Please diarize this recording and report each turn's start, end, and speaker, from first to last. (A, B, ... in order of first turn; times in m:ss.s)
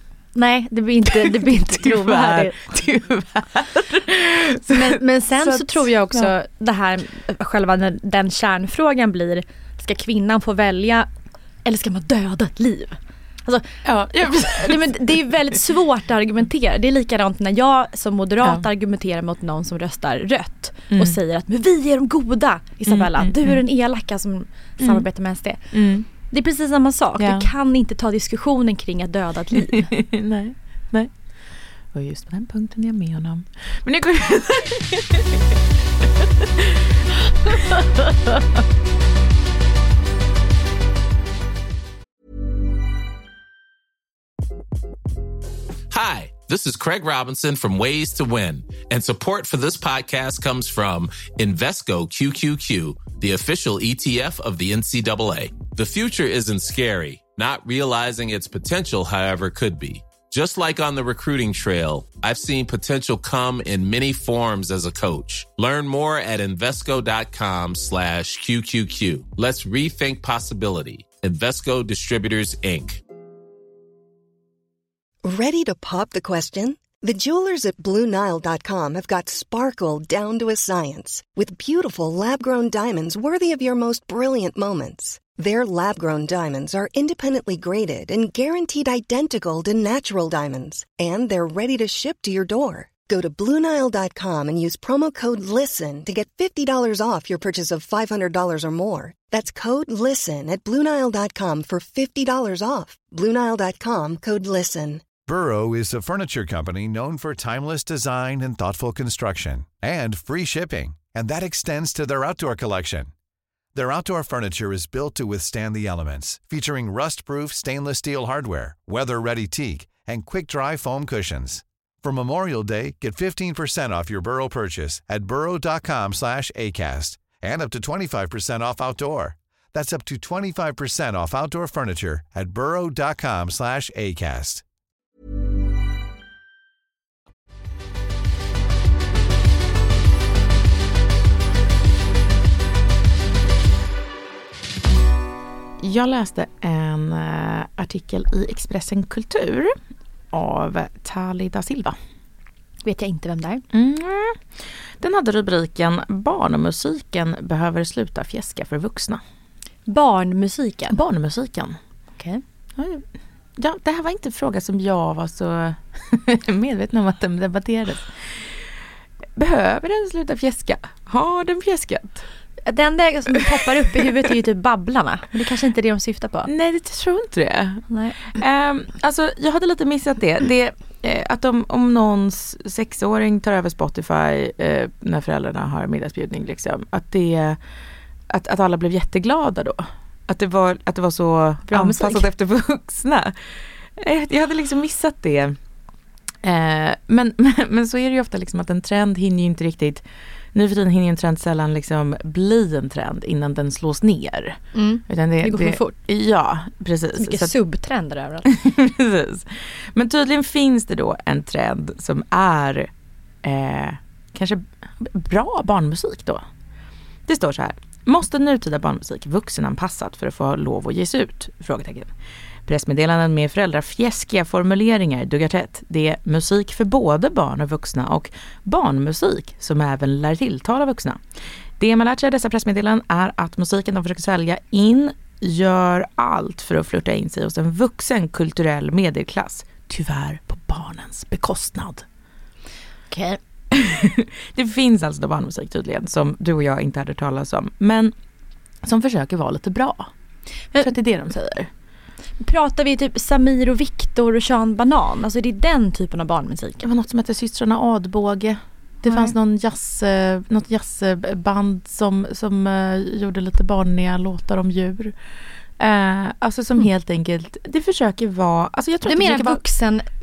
0:00.4-0:02.6 A
0:01.0-0:06.3 B
0:04.7-0:11.1 A
0:11.6-0:25.6 A
0:13.8-0:15.6 B
0:20.9-0:21.2 B
0:22.9-0:23.6 B
0:24.8-0:25.1 B
0:25.7-0:26.1 B
0:26.2-0:29.9 A
0:27.2-0:27.5 B
0:29.5-0:31.1 B
0:31.9-0:35.4 B
0:36.2-0:36.9 B
0:37.4-0:38.3 B
0:45.9-1:13.0 C
1:15.2-1:45.0 D
1:45.3-1:53.1 E
1:53.8-2:14.6 E
2:25.8-2:29.7 B
2:30.3-2:32.0 B
2:32.8-2:33.6 A
2:33.7-2:39.2 B
2:39.9-2:41.0 A
2:40.9-2:41.8 B
2:42.8-2:48.6 B
2:49.4-2:52.3 B
2:52.7-2:56.5 A
2:53.3-2:54.1 B
2:56.5-3:07.6 B
2:57.9-2:58.2 A
3:08.3-3:13.4 B
3:11.7-3:12.3 A
3:14.0-3:15.6 B
3:16.4-3:27.6 B
3:24.7-3:26.0 A
3:27.2-3:28.5 A
3:28.5-3:32.9 B
3:33.4-3:36.4 B
3:37.3-3:42.1 B
3:42.7-3:51.2 B
3:51.8-4:02.0 B
4:03.1-4:03.4 A
4:03.7-4:08.1 B
4:08.8-4:10.1 B
4:10.8-4:11.7 B
4:12.4-4:16.9 A
4:16.8-4:25.2 B
4:25.8-4:29.6 B
4:29.0-4:30.1 A